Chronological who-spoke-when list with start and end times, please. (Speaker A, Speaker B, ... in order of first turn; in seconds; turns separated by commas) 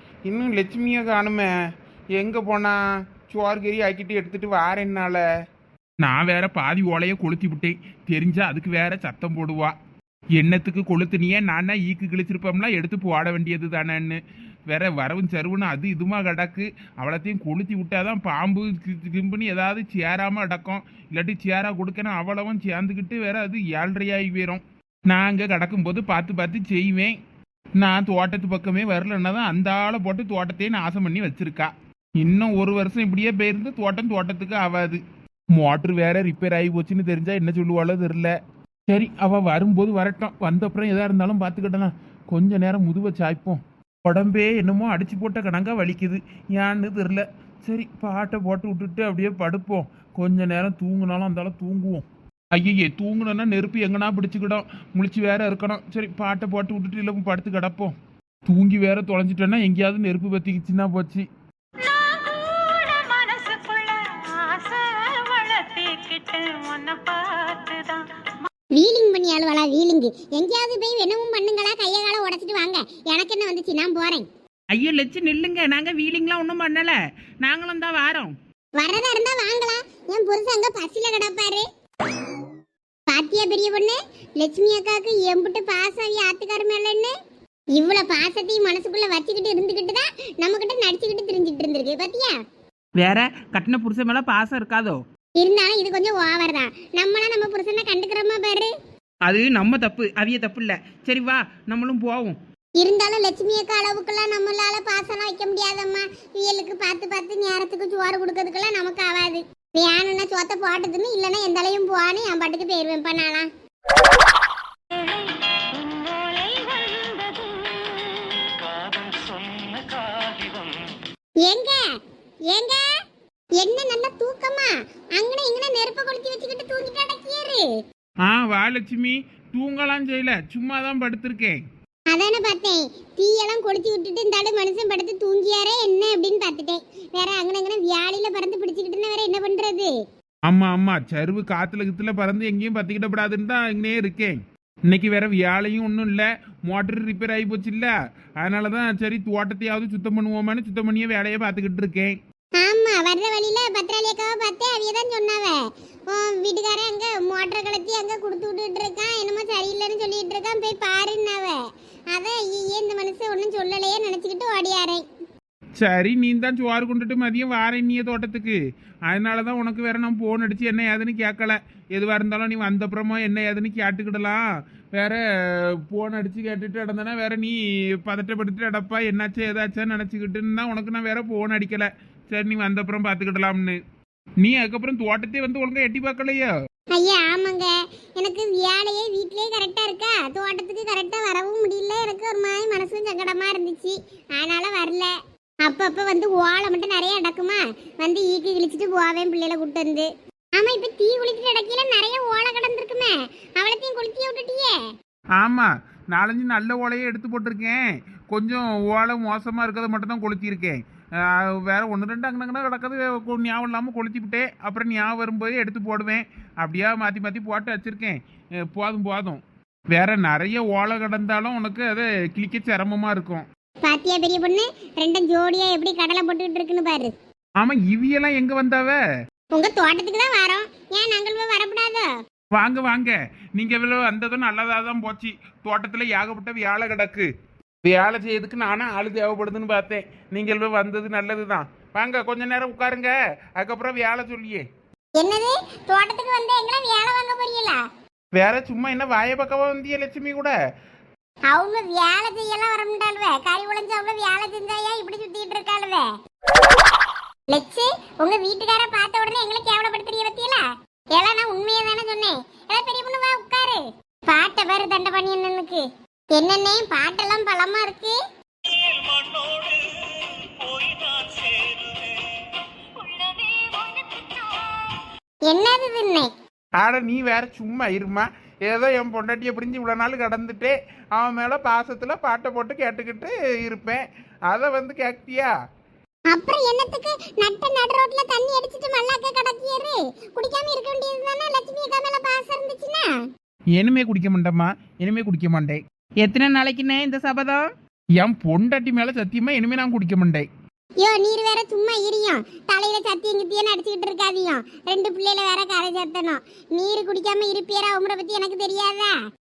Speaker A: 0.3-1.5, Speaker A: 2.2-5.2, Speaker A: 6.0-9.7, Speaker A: 10.4-27.1, Speaker A: 27.8-35.0, Speaker A: 35.6-38.3, Speaker A: 38.9-58.0, Speaker A: 58.5-61.3, Speaker B: 61.8-68.3, Speaker C: 68.8-74.3, Speaker D: 74.7-78.3, Speaker C: 78.8-81.6, Speaker C: 83.1-87.1, Speaker C: 87.8-92.4, Speaker D: 93.0-95.0, Speaker C: 95.4-98.7, Speaker D: 99.3-102.4, Speaker C: 102.8-113.5, Speaker B: 114.9-121.0, Speaker C: 121.5-121.8, Speaker C: 122.5-122.8, Speaker C: 123.6-127.7, Speaker A: 128.3-131.6, Speaker C: 132.1-139.9, Speaker A: 140.5-152.2, Speaker C: 152.6-161.6, Speaker C: 162.1-165.0, Speaker A: 165.8-168.6, Speaker A: 169.1-183.8, Speaker A: 184.4-186.5, Speaker C: 186.9-204.8, Speaker A: 205.4-219.4, Speaker A: 219.9-223.5, Speaker C: 223.8-227.2, Speaker A: 227.6-229.0, Speaker C: 229.5-232.1, Speaker A: 232.6-237.3, Speaker A: 237.8-244.7, Speaker C: 245.2-247.8, Speaker A: 248.3-250.5, Speaker C: 251.5-256.1, Speaker C: 257.5-260.6, Speaker C: 261.1-265.8, Speaker C: 266.3-268.2, Speaker B: 268.7-275.0, Speaker C: 275.5-276.3, Speaker A: 276.8-285.5, Speaker C: 286.3-293.1, Speaker A: 293.8-295.8, Speaker D: 296.2-297.7, Speaker A: 298.2-300.5, Speaker C: 301.0-309.2